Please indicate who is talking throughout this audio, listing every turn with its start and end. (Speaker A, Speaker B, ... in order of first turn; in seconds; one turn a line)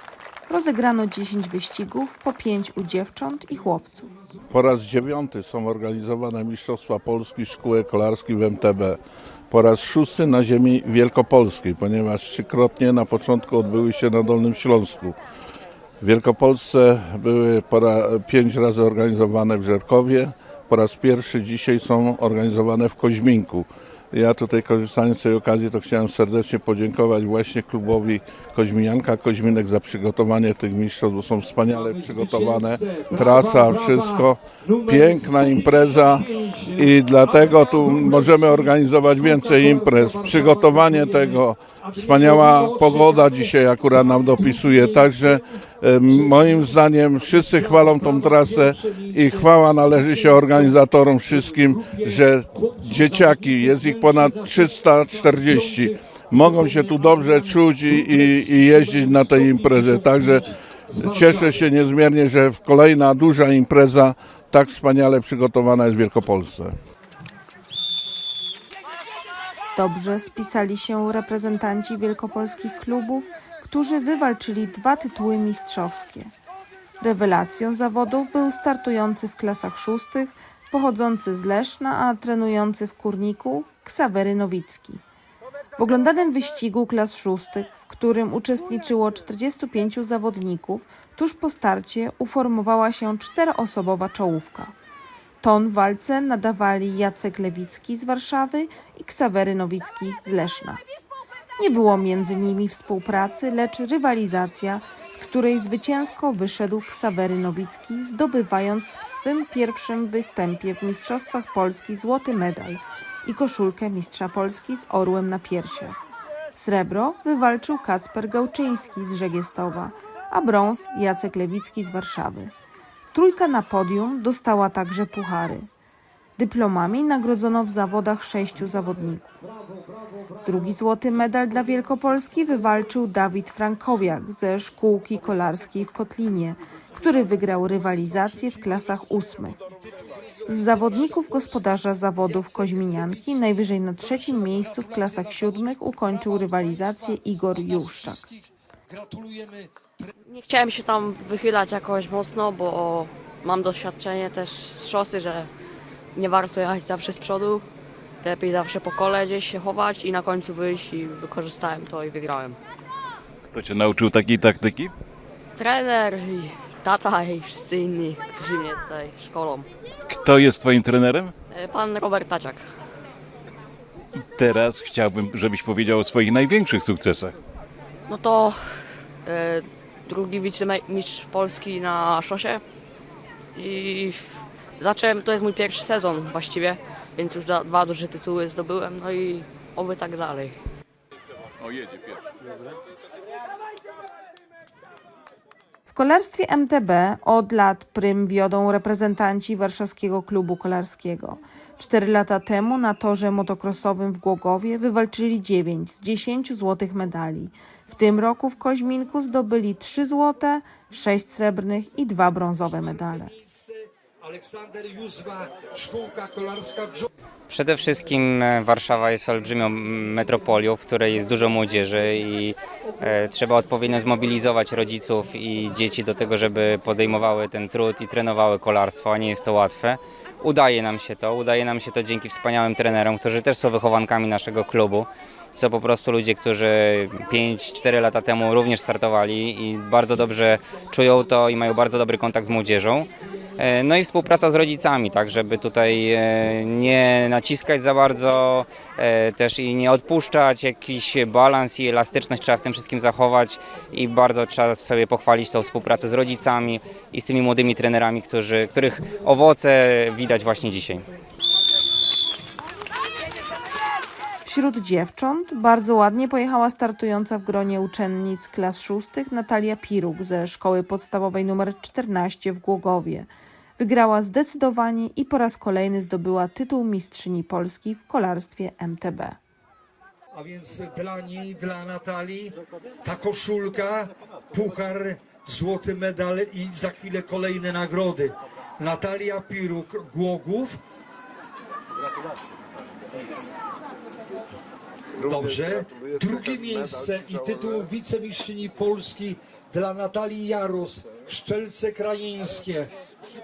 Speaker A: 0.5-4.1
Speaker B: 4.5-9.0
Speaker B: 9.5-15.2
Speaker B: 16.0-36.3
Speaker C: 31.7-45.4
Speaker B: 36.8-60.5
Speaker C: 46.1-61.7
Speaker B: 61.0-66.8
Speaker A: 69.8-76.3
Speaker A: 77.0-85.0
Speaker A: 85.8-94.7
Speaker A: 95.4-100.8
Speaker A: 101.6-122.5
Speaker A: 123.1-125.7
Speaker A: 126.4-129.3
Speaker A: 130.4-139.6
Speaker C: 139.7-141.4
Speaker A: 140.5-148.3
Speaker C: 142.2-143.3
Speaker C: 144.0-150.1
Speaker D: 150.3-155.5
Speaker D: 156.1-157.7
Speaker D: 158.2-162.6
Speaker E: 163.5-164.9
Speaker D: 165.6-169.7
Speaker E: 170.1-171.3
Speaker D: 171.5-172.6
Speaker E: 174.2-177.4
Speaker D: 178.1-182.6
Speaker D: 183.6-190.6
Speaker A: 195.9-213.3
Speaker C: 212.8-217.1
Speaker F: 217.5-261.1
Speaker A: 264.4-279.4
Speaker C: 280.3-290.8
Speaker C: 295.2-302.9